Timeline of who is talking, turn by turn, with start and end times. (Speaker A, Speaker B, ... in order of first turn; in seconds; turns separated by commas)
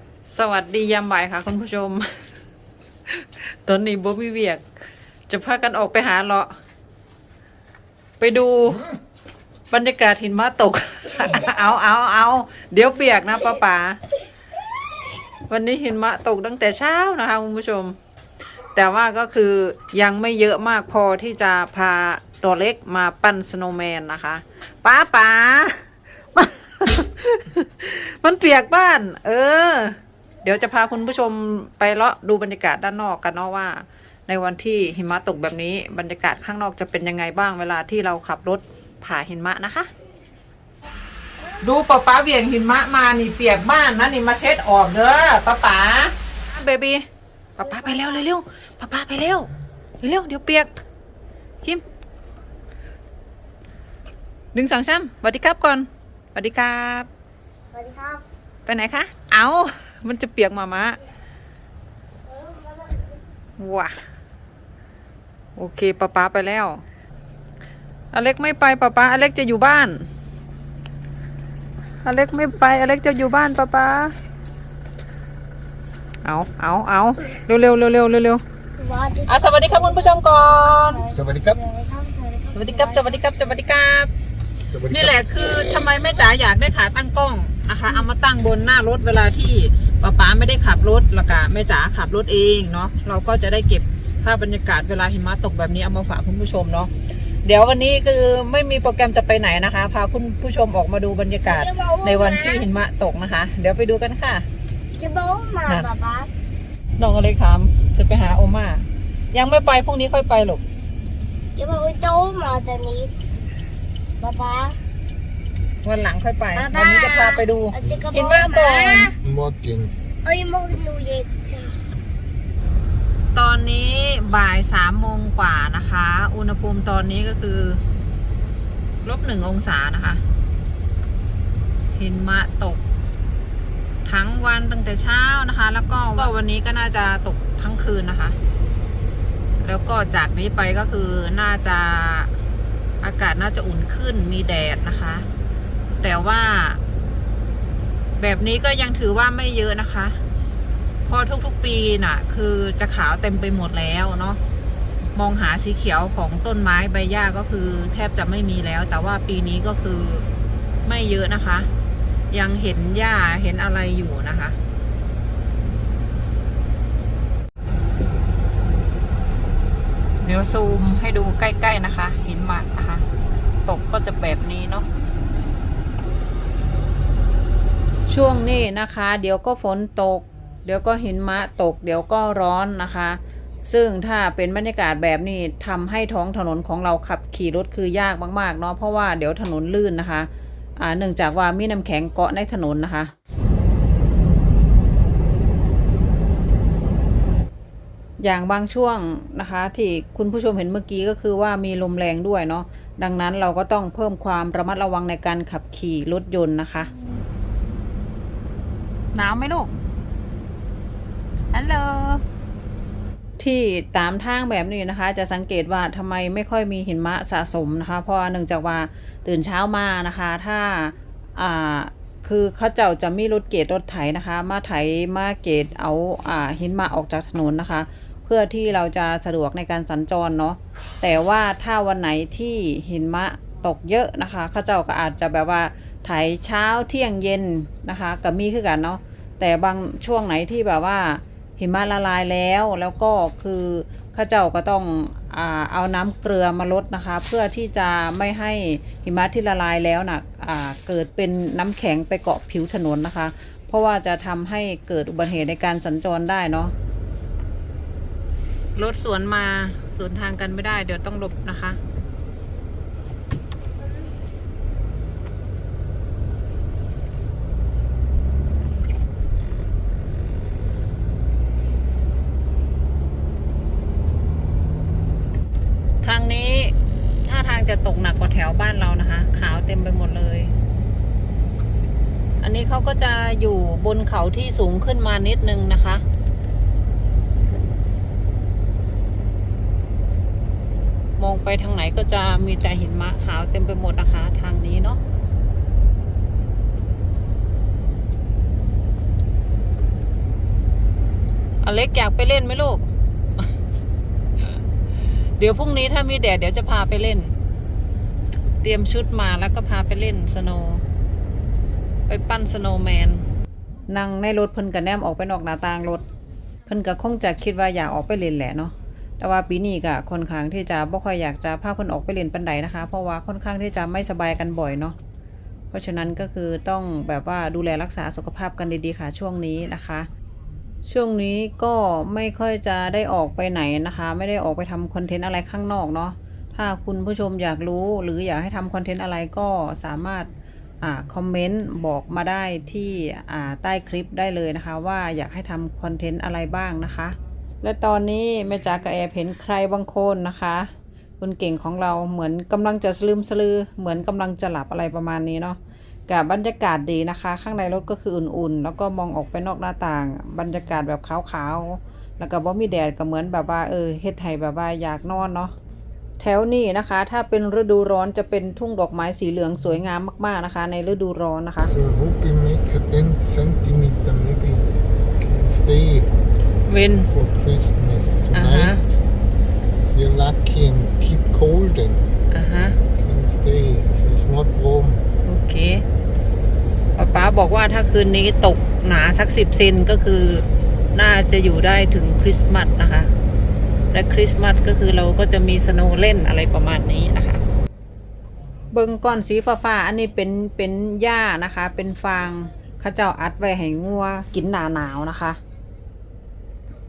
Speaker A: 0.3-2.1, Speaker A: 3.1-4.7, Speaker A: 5.3-6.5, Speaker A: 8.2-8.8, Speaker A: 9.7-14.0, Speaker A: 15.5-17.9, Speaker A: 18.7-39.9, Speaker A: 41.6-47.0, Speaker A: 47.6-49.5, Speaker A: 50.0-50.8, Speaker A: 54.5-57.1, Speaker B: 57.7-58.2, Speaker A: 58.6-61.0, Speaker B: 62.3-63.1, Speaker A: 63.6-63.9, Speaker A: 65.5-66.8, Speaker A: 68.1-70.0, Speaker A: 72.0-74.2, Speaker A: 76.2-78.4, Speaker B: 78.8-83.1, Speaker A: 79.2-81.0, Speaker A: 82.5-84.1, Speaker A: 84.8-96.9, Speaker A: 97.4-104.5, Speaker B: 101.5-102.6, Speaker B: 105.0-106.3, Speaker A: 107.0-110.6, Speaker B: 111.5-113.1, Speaker B: 114.2-114.8, Speaker A: 115.8-119.1, Speaker B: 116.5-119.2, Speaker C: 119.2-119.9, Speaker B: 120.2-121.8, Speaker A: 123.3-127.8, Speaker A: 129.0-130.2, Speaker A: 131.9-132.8, Speaker A: 134.0-138.4, Speaker A: 139.6-142.3, Speaker A: 143.0-145.2, Speaker A: 146.0-146.8, Speaker A: 148.2-150.2, Speaker A: 151.1-154.4, Speaker A: 155.1-160.2, Speaker A: 160.8-161.7, Speaker A: 162.3-164.6, Speaker A: 170.2-173.1, Speaker A: 173.7-174.9, Speaker A: 178.1-193.1, Speaker A: 198.2-206.9, Speaker A: 209.1-209.7, Speaker A: 211.5-212.2, Speaker A: 213.4-256.7, Speaker A: 258.7-261.8, Speaker A: 276.0-280.5, Speaker A: 282.4-286.0, Speaker A: 291.2-295.0, Speaker A: 301.6-302.9, Speaker A: 305.4-307.3, Speaker A: 308.6-310.8, Speaker A: 312.1-313.2, Speaker A: 313.9-316.0, Speaker A: 316.7-324.9, Speaker A: 325.7-330.1, Speaker A: 330.8-340.3, Speaker A: 340.8-350.7, Speaker A: 351.2-365.5, Speaker A: 366.2-371.7, Speaker C: 371.7-376.1, Speaker A: 376.7-377.1, Speaker C: 377.1-378.7, Speaker A: 378.3-378.8, Speaker C: 379.9-382.1, Speaker A: 382.3-382.8, Speaker C: 383.0-385.0, Speaker A: 385.2-385.8, Speaker A: 386.9-393.1, Speaker A: 393.9-397.4, Speaker A: 398.7-405.4